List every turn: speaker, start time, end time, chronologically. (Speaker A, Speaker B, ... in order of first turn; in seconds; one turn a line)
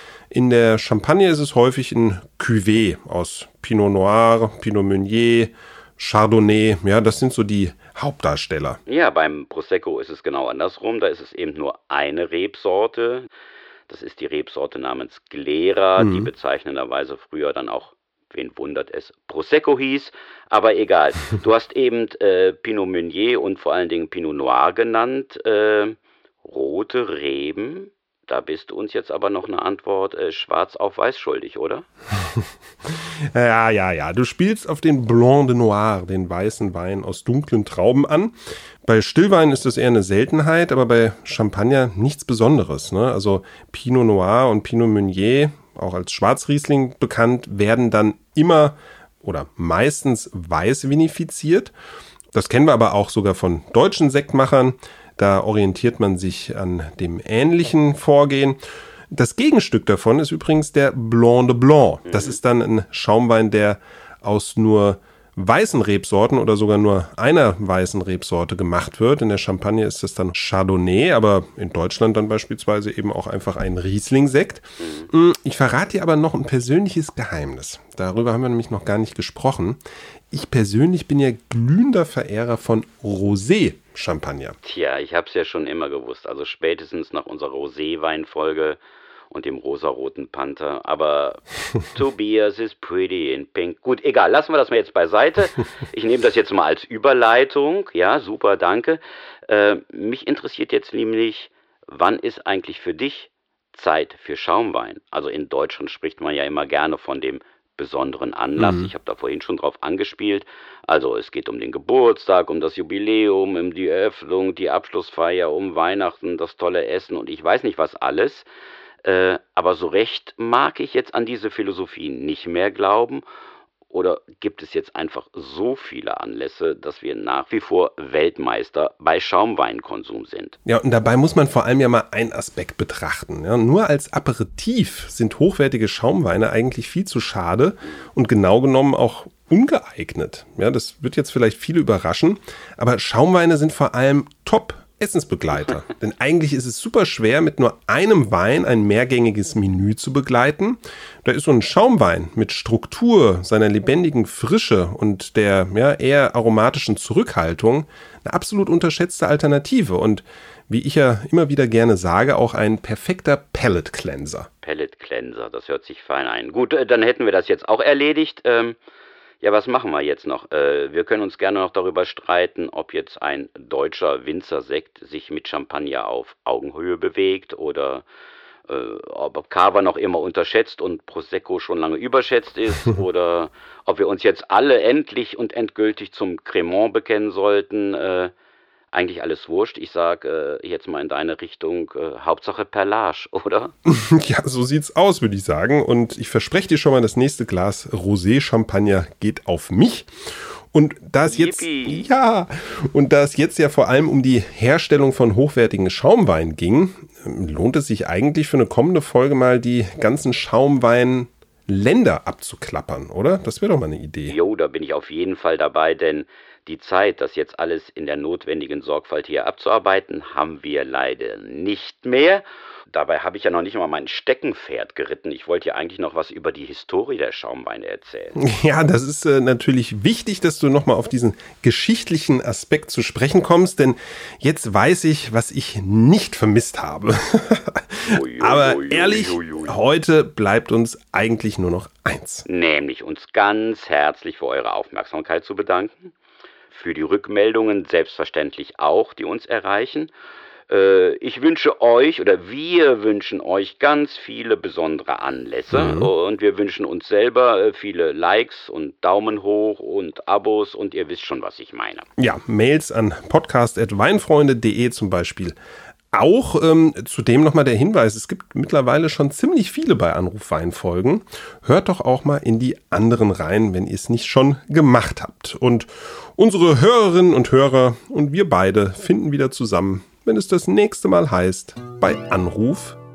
Speaker A: 0.3-8.8
Speaker B: 8.9-13.3
Speaker B: 13.9-31.9
Speaker A: 16.0-16.3
Speaker A: 32.2-51.7
Speaker A: 52.3-58.6
Speaker A: 59.1-79.8
Speaker B: 62.0-62.4
Speaker B: 74.8-75.1
Speaker A: 80.3-84.5
Speaker B: 84.6-88.8
Speaker B: 89.3-118.5
Speaker A: 108.6-108.9
Speaker B: 119.0-123.2
Speaker B: 123.9-130.6
Speaker A: 130.7-164.5
Speaker B: 164.6-168.8
Speaker B: 169.4-178.0
Speaker B: 178.7-188.3
Speaker B: 188.9-193.7
Speaker A: 193.8-200.1
Speaker A: 200.7-214.4
Speaker B: 201.2-202.1
Speaker B: 214.3-228.4
Speaker A: 228.3-242.4
Speaker B: 238.1-239.8
Speaker B: 242.5-246.1
Speaker B: 246.7-250.1
Speaker B: 250.7-262.1
Speaker A: 255.7-256.1
Speaker A: 262.2-265.6
Speaker A: 266.1-283.0